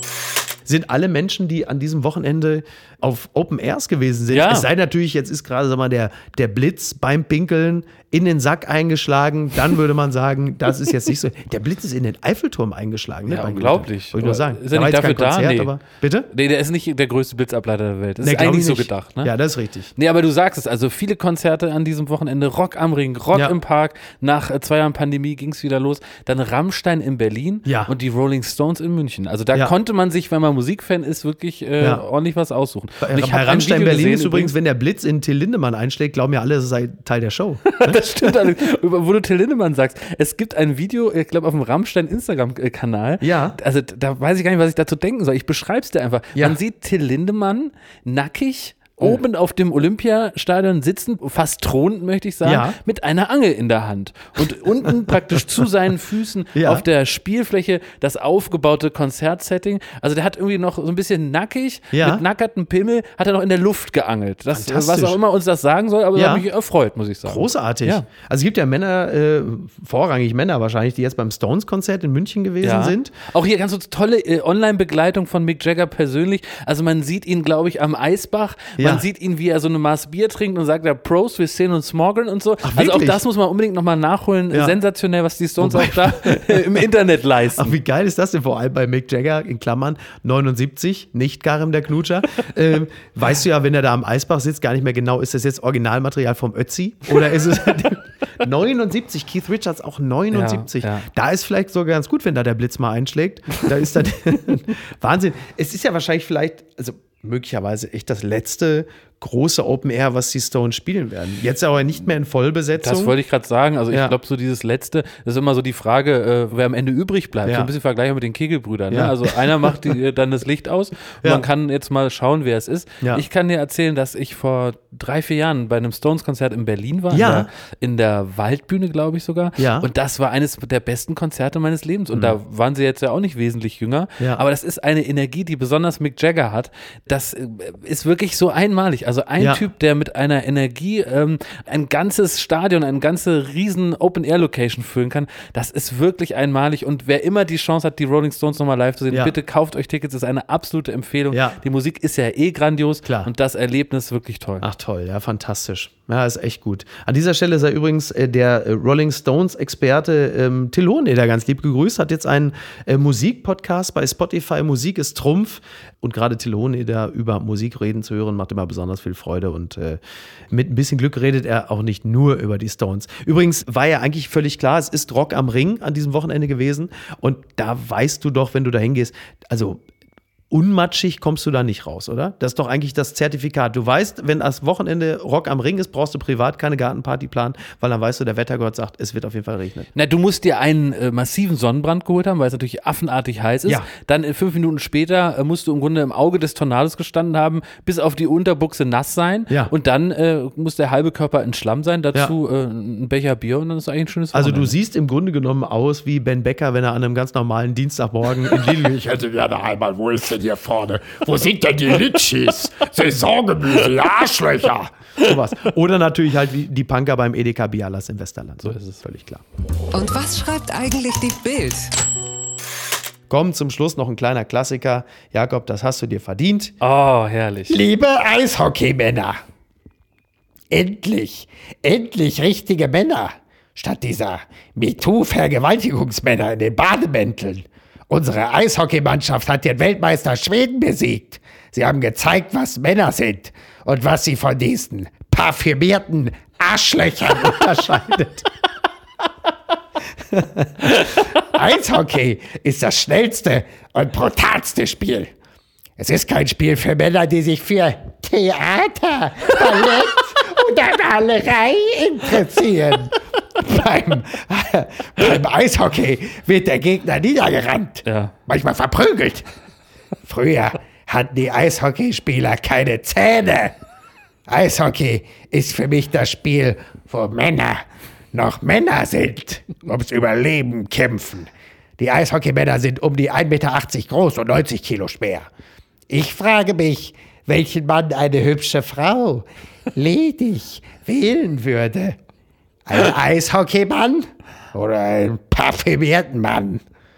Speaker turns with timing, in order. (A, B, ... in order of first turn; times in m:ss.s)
0:00.6-0:16.3 A
0:04.3-0:04.7 B
0:13.3-0:15.7 B
0:16.3-0:19.3 B
0:18.2-0:19.9 A
0:20.0-0:34.5 B
0:27.6-0:27.9 A
0:33.0-0:38.4 A
0:37.7-1:08.0 B
0:43.2-0:43.6 A
0:52.4-0:52.8 A
0:56.5-0:56.8 A
1:01.9-1:02.2 A
1:04.5-1:05.2 A
1:06.2-1:06.4 A
1:07.3-1:13.1 A
1:12.6-1:27.8 B
1:18.8-1:19.0 A
1:22.6-1:23.2 A
1:25.6-1:26.8 A
1:27.6-1:53.1 A
1:40.3-1:41.1 B
1:52.8-2:34.6 B
1:58.9-1:59.7 A
2:07.1-2:07.5 A
2:09.6-2:09.9 A
2:19.4-2:19.6 A
2:31.3-2:31.6 A
2:33.0-2:33.3 A
2:34.6-2:50.0 A
2:50.5-2:59.8 A
3:00.5-3:09.9 A
3:09.9-3:24.7 B
3:24.3-3:29.0 A
3:28.5-3:34.9 C
3:35.2-3:39.4 A
3:38.6-3:39.0 B
3:39.9-3:41.9 D
3:43.3-3:46.7 A
3:46.8-3:47.8 B
3:47.7-3:49.4 C
3:50.7-4:08.4 C
4:07.9-4:08.3 A
4:10.8-4:15.3 C
4:16.0-4:29.5 C
4:28.0-4:28.3 B
4:30.2-4:33.7 C
4:34.5-4:45.4 C
4:46.1-4:52.2 C
4:52.8-4:56.8 C